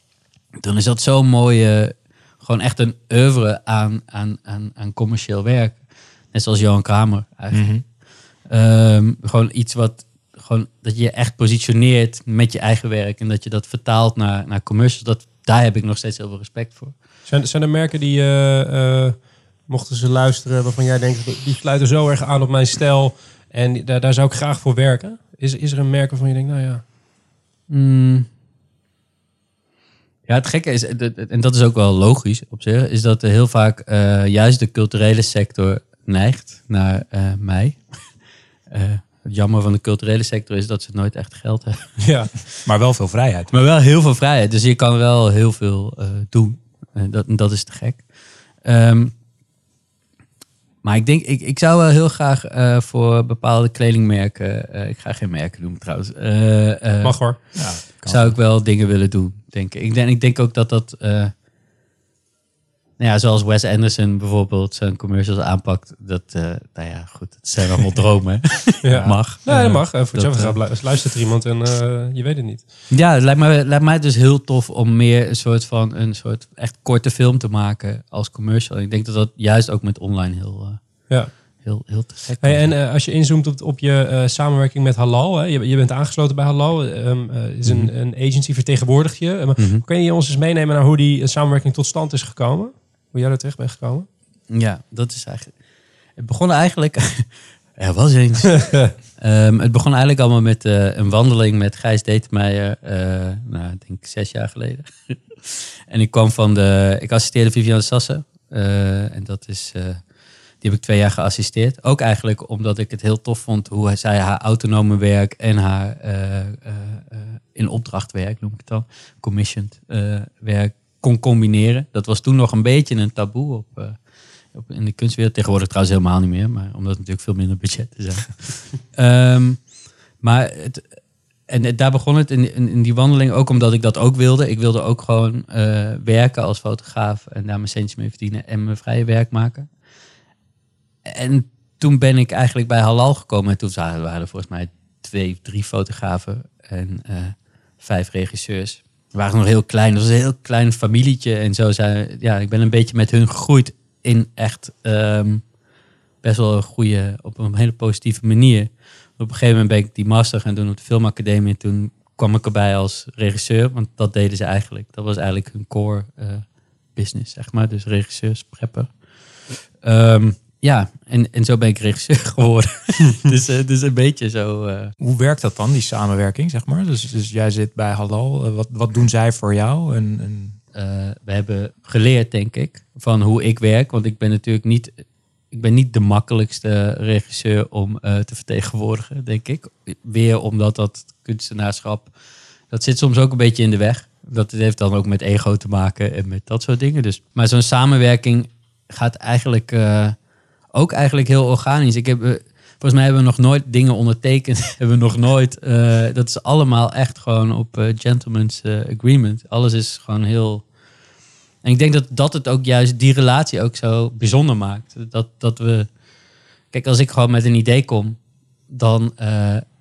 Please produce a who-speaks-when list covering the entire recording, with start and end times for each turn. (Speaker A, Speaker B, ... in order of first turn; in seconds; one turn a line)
Speaker A: 0.6-5.8
Speaker A: 6.3-7.9
Speaker B: 7.5-7.8
Speaker A: 8.4-17.0
Speaker C: 17.3-26.8
Speaker A: 27.7-28.3
Speaker A: 30.3-37.8
Speaker A: 38.7-42.0
Speaker C: 42.0-42.3
Speaker B: 42.6-43.5
Speaker A: 43.5-48.0
Speaker A: 48.6-49.1
Speaker A: 50.8-61.3
Speaker C: 57.0-57.4
Speaker B: 57.6-58.4
Speaker A: 63.0-70.7
Speaker C: 68.8-72.7
Speaker A: 72.9-82.7
Speaker C: 82.4-94.1
Speaker A: 87.7-87.9
Speaker A: 89.6-89.8
Speaker A: 94.5-95.5
Speaker A: 96.2-110.0
Speaker A: 110.6-124.0
Speaker A: 124.5-129.7
Speaker A: 130.2-130.9
Speaker A: 131.5-139.7
Speaker A: 141.1-155.4
Speaker A: 156.2-168.9
Speaker A: 169.8-174.9
Speaker B: 175.0-180.6
Speaker A: 180.7-192.1
Speaker A: 192.7-200.2
Speaker A: 200.7-210.7
Speaker A: 211.6-215.9
Speaker A: 216.7-218.2
Speaker A: 218.7-219.6